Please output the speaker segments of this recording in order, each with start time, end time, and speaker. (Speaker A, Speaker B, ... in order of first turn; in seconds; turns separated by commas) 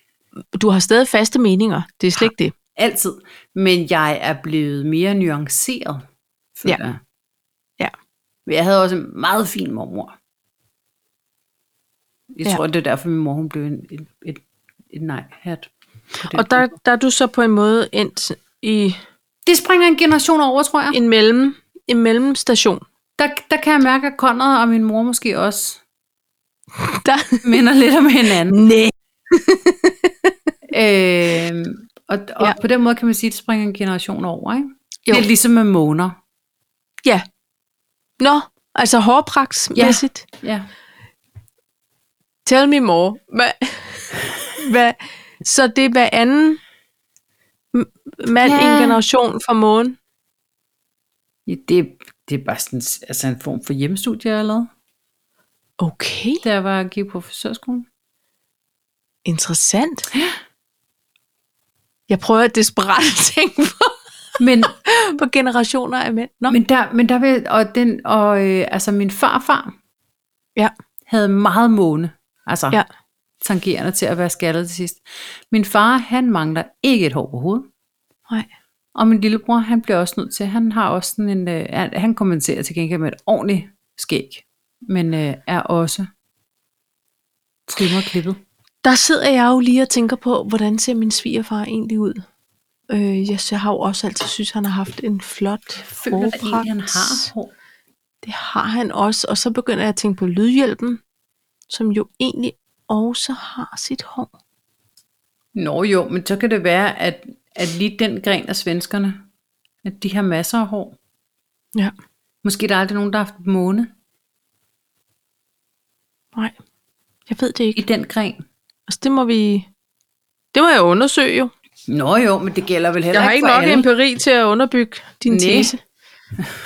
Speaker A: 0.5-2.5, Speaker B: 2.2-6.0, Speaker B: 6.5-7.0, Speaker B: 8.4-10.1, Speaker B: 12.3-16.7, Speaker A: 16.3-19.0, Speaker B: 19.4-21.0, Speaker A: 20.9-22.8, Speaker B: 23.2-25.8, Speaker A: 26.8-27.4, Speaker B: 27.4-28.6, Speaker A: 28.5-30.3, Speaker B: 30.7-36.2, Speaker A: 38.2-40.2, Speaker B: 39.8-40.7, Speaker A: 42.4-46.6, Speaker A: 47.7-50.0, Speaker B: 48.4-49.0, Speaker B: 51.5-54.7, Speaker A: 55.8-56.4, Speaker B: 56.4-57.9, Speaker A: 59.2-60.1, Speaker A: 62.1-64.0, Speaker B: 64.4-64.7, Speaker A: 64.6-66.6, Speaker B: 66.5-69.7, Speaker B: 71.1-72.8, Speaker B: 73.4-77.7, Speaker B: 78.9-86.1, Speaker B: 87.7-88.4, Speaker A: 88.8-92.2, Speaker A: 92.9-97.3, Speaker B: 95.9-97.5, Speaker A: 98.2-101.0, Speaker A: 101.7-104.3, Speaker B: 105.5-109.2, Speaker B: 109.8-111.0, Speaker B: 112.4-113.9, Speaker A: 117.3-117.8, Speaker B: 117.8-118.4, Speaker A: 118.9-119.7, Speaker A: 120.5-121.5, Speaker B: 121.9-123.9, Speaker A: 123.1-125.8, Speaker B: 125.3-125.7